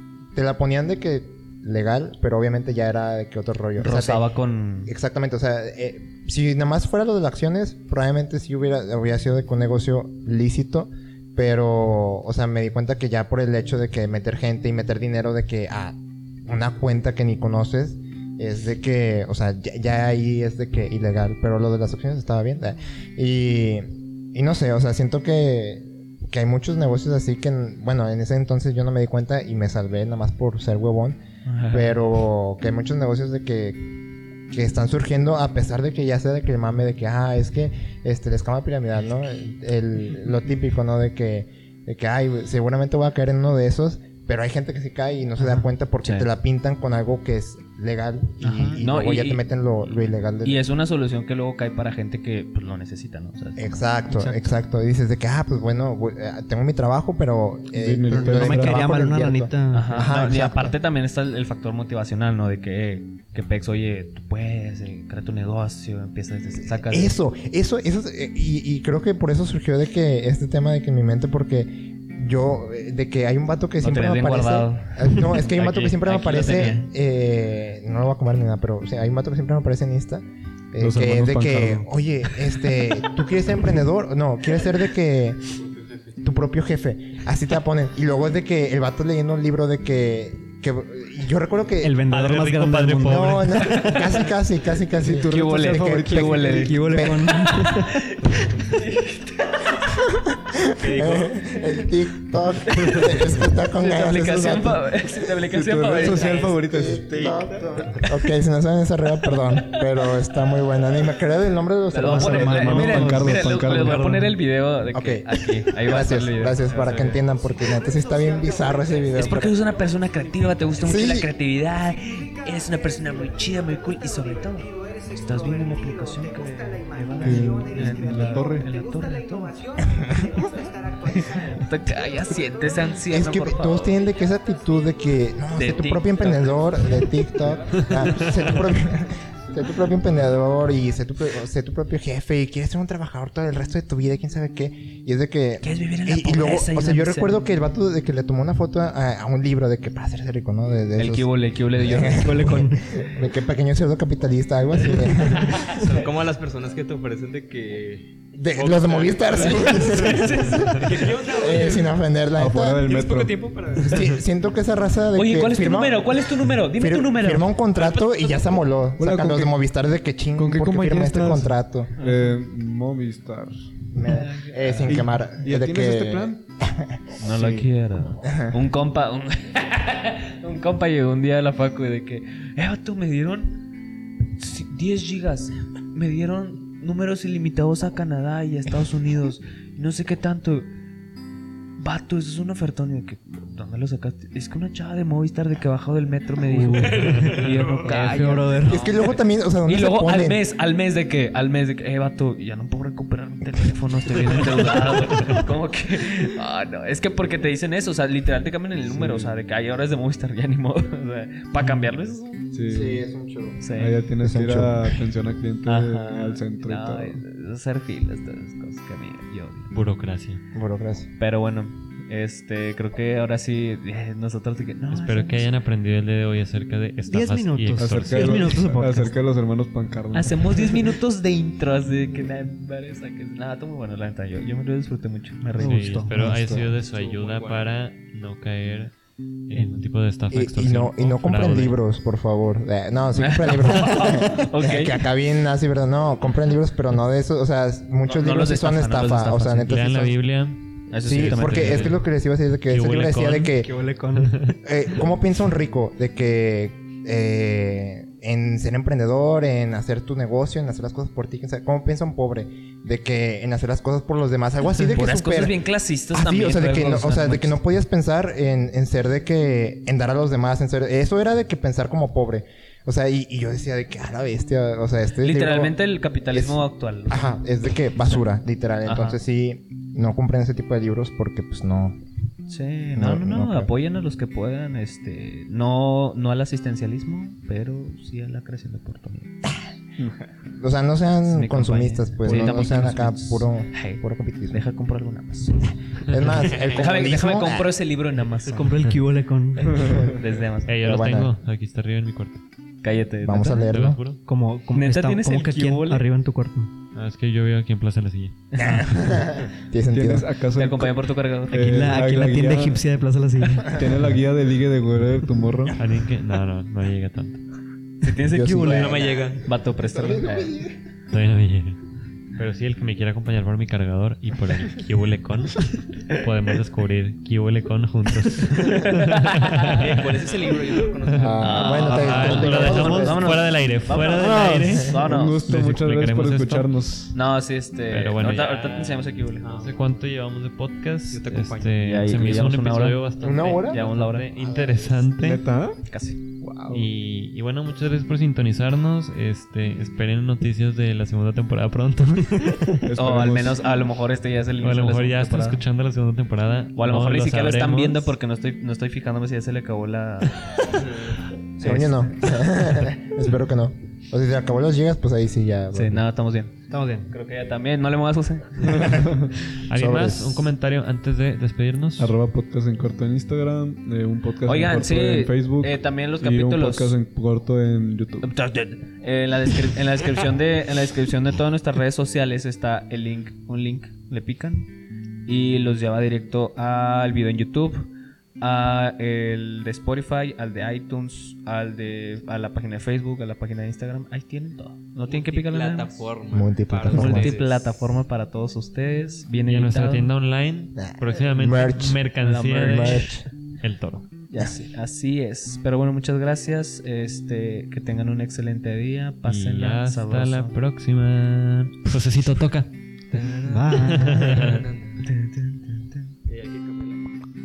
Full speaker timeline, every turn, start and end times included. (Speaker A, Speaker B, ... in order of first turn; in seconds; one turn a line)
Speaker A: 0.3-4.2
Speaker B: 3.8-4.9
Speaker A: 4.9-33.9
Speaker B: 31.4-31.9
Speaker A: 34.5-50.6
Speaker C: 48.4-48.8
Speaker B: 48.4-49.4
Speaker B: 50.4-53.7
Speaker A: 53.6-60.7
Speaker C: 54.1-54.5
Speaker D: 57.7-58.9
Speaker C: 58.1-60.1
Speaker B: 59.7-67.1
Speaker A: 66.9-85.4
Speaker B: 73.8-76.9
Speaker D: 80.8-82.6
Speaker A: 86.2-92.0
Speaker C: 91.8-94.0
Speaker E: 92.1-94.1
Speaker A: 93.0-97.4
Speaker D: 95.0-96.9
Speaker B: 95.2-100.0
Speaker C: 96.5-98.1
Speaker A: 100.0-105.3
Speaker B: 100.8-101.8
Speaker B: 102.6-107.0
Speaker D: 105.3-107.5
Speaker A: 106.7-112.9
Speaker F: 107.3-108.0
Speaker B: 109.5-110.0
Speaker B: 111.9-117.2
Speaker D: 112.1-114.3
Speaker C: 112.1-114.3
Speaker A: 114.9-119.6
Speaker B: 119.1-129.8
Speaker A: 120.8-121.3
Speaker D: 127.2-128.7
Speaker A: 130.1-130.4
Speaker B: 131.1-134.0
Speaker A: 133.1-155.7
Speaker B: 135.6-136.6
Speaker F: 137.7-138.6
Speaker E: 137.8-138.1
Speaker B: 145.6-147.4
Speaker B: 151.0-152.8
Speaker C: 152.5-152.7
Speaker F: 155.4-162.0
Speaker A: 158.3-162.8
Speaker D: 162.4-163.4
Speaker F: 162.8-164.2
Speaker A: 163.8-171.9
Speaker B: 165.1-167.5
Speaker F: 167.8-168.6
Speaker D: 169.0-169.6
Speaker D: 170.4-173.9
Speaker A: 173.9-178.6
Speaker B: 174.2-174.9
Speaker D: 174.7-176.4
Speaker B: 177.2-183.6
Speaker B: 184.3-190.7
Speaker B: 191.8-212.5
Speaker C: 196.4-198.8
Speaker E: 196.9-198.5
Speaker A: 198.6-200.4
Speaker E: 204.6-205.1
Speaker D: 208.9-209.3
Speaker D: 212.5-213.0
Speaker A: 212.7-213.6
Speaker B: 213.6-214.0
Speaker D: 213.7-217.2
Speaker A: 214.2-214.8
Speaker B: 215.7-219.7
Speaker E: 219.7-220.4
Speaker A: 220.5-221.1
Speaker B: 221.2-225.5
Speaker E: 224.9-228.6
Speaker C: 227.1-229.1
Speaker D: 227.8-230.9
Speaker B: 230.1-235.8
Speaker C: 235.6-236.7
Speaker E: 235.6-238.9
Speaker F: 236.7-237.7
Speaker E: 239.5-241.7
Speaker A: 240.3-250.2
Speaker B: 243.2-245.0
Speaker B: 248.1-249.7
Speaker E: 249.7-252.0
Speaker B: 250.9-252.0
Speaker A: 251.0-253.7
Speaker E: 252.7-254.6
Speaker C: 253.6-254.4
Speaker A: 254.6-275.8
Speaker B: 264.8-267.6
Speaker B: 275.2-277.3
Speaker A: 276.3-282.0
Speaker B: 278.9-279.2
Speaker B: 282.5-289.3
Speaker A: 282.9-283.7
Speaker A: 290.6-294.6
Speaker B: 291.3-295.7
Speaker A: 296.1-297.7
Speaker B: 296.7-298.7
Speaker C: 298.4-300.0
Speaker B: 300.0-300.7
Speaker E: 300.7-302.4
Speaker A: 300.8-301.3
Speaker B: 302.8-303.7
Speaker A: 303.2-304.0
Speaker E: 303.6-304.2
Speaker C: 304.3-306.7
Speaker B: 304.7-306.1
Speaker E: 306.9-308.4
Speaker B: 308.5-308.9
Speaker A: 308.6-310.3
Speaker D: 309.9-312.9
Speaker B: 310.5-311.9
Speaker C: 311.5-313.7
Speaker D: 313.7-315.8
Speaker E: 315.7-317.4
Speaker B: 318.0-320.6
Speaker A: 318.3-319.3
Speaker F: 318.6-320.3
Speaker A: 319.9-320.7
Speaker E: 321.1-321.8
Speaker E: 322.4-330.4
Speaker B: 328.6-329.7
Speaker F: 329.7-332.7
Speaker E: 331.1-334.9
Speaker A: 331.2-333.4
Speaker B: 331.4-335.4
Speaker C: 333.9-334.7
Speaker D: 335.0-337.2
Speaker E: 335.5-336.7
Speaker B: 337.1-339.5
Speaker E: 337.9-345.4
Speaker F: 339.4-340.0
Speaker F: 341.1-341.8
Speaker B: 341.8-343.0
Speaker A: 343.2-343.8
Speaker B: 343.7-344.3
Speaker A: 344.4-344.8
Speaker D: 345.2-345.8
Speaker B: 345.9-346.2
Speaker D: 346.4-346.9
Speaker E: 346.7-352.8
Speaker D: 352.8-353.9
Speaker B: 353.0-355.6
Speaker E: 354.6-358.1
Speaker B: 356.8-360.8
Speaker B: 361.6-361.9
Speaker A: 361.6-366.1
Speaker B: 365.7-366.6
Speaker C: 366.7-367.1
Speaker B: 367.1-369.1
Speaker A: 368.7-369.1
Speaker D: 368.9-369.3
Speaker E: 369.7-372.1
Speaker A: 369.7-370.5
Speaker D: 372.0-378.3
Speaker B: 374.4-377.0
Speaker B: 378.2-384.7
Speaker B: 385.3-396.1
Speaker F: 395.1-397.7
Speaker A: 396.3-397.4
Speaker B: 396.9-400.1
Speaker E: 399.4-403.1
Speaker A: 400.8-402.1
Speaker B: 402.2-403.2
Speaker A: 402.6-403.3
Speaker E: 403.6-404.1
Speaker B: 404.3-410.6
Speaker E: 409.2-412.7
Speaker F: 413.1-415.1
Speaker C: 413.4-414.3
Speaker E: 413.7-414.7
Speaker B: 415.0-416.1
Speaker F: 416.3-417.2